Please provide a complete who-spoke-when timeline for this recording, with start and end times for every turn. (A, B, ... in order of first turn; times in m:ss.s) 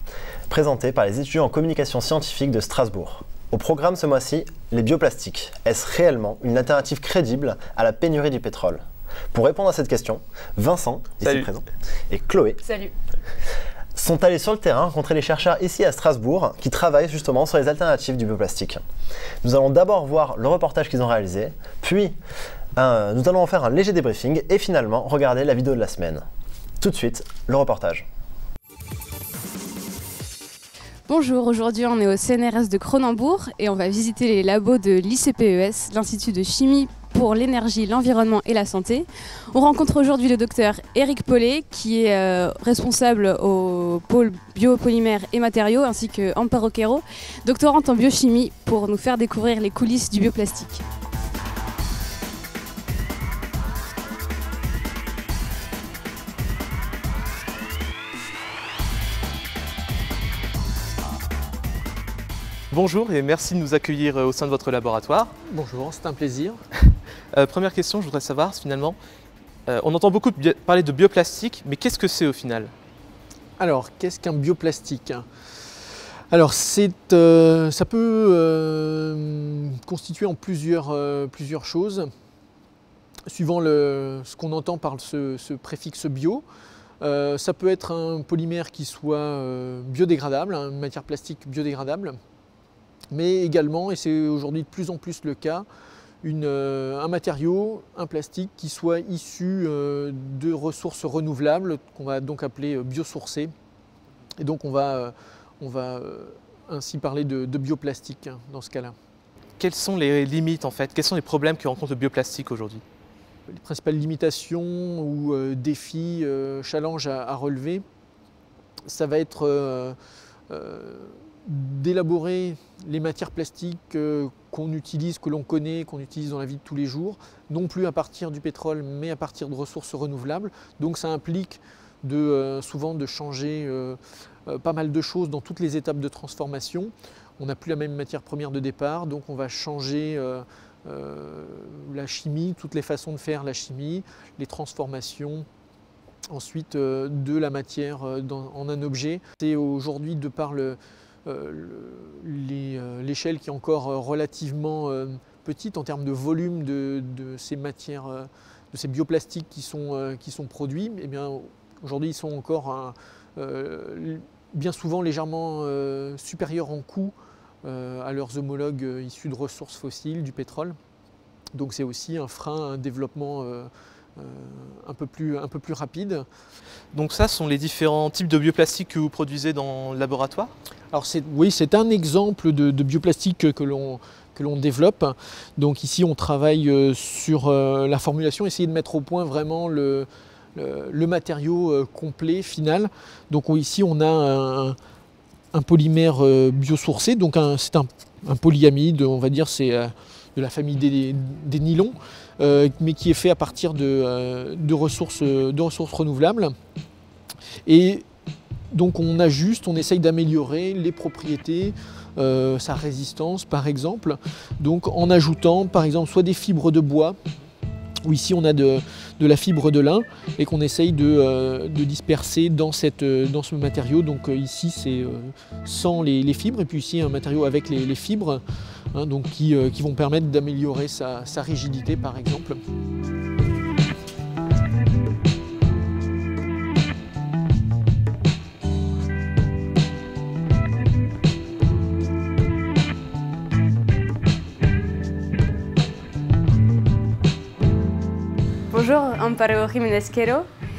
0:00.5-0:12.6 A
0:11.2-0:11.5 B
0:12.6-0:12.9 C
0:14.0-0:18.8 A
0:19.4-0:22.2 A
0:22.8-0:26.2 A
0:26.8-0:28.1 A
0:31.1-0:50.8 C
1:02.7-1:05.3 B
1:05.5-1:06.6 D
1:06.9-1:09.0 B
1:09.7-1:12.7 B
1:13.6-1:15.3 D
1:16.3-1:22.1 D
1:23.3-1:26.4 D
1:27.0-1:32.2 D
1:33.1-1:35.7 D
1:36.2-1:43.5 D
1:44.4-1:49.0 D
1:49.6-1:52.8 B
1:53.5-1:57.8 D
1:58.9-2:00.0 D
2:00.5-2:25.5 D
2:26.3-2:50.8 D
2:51.5-2:56.3 D
2:56.9-3:00.5 B
3:00.9-3:14.8 D
3:15.5-3:26.6 D
3:27.7-3:28.0 D
3:28.7-3:37.2 D
3:38.0-3:48.4 D
3:48.9-3:52.6 D
4:08.7-4:10.5 C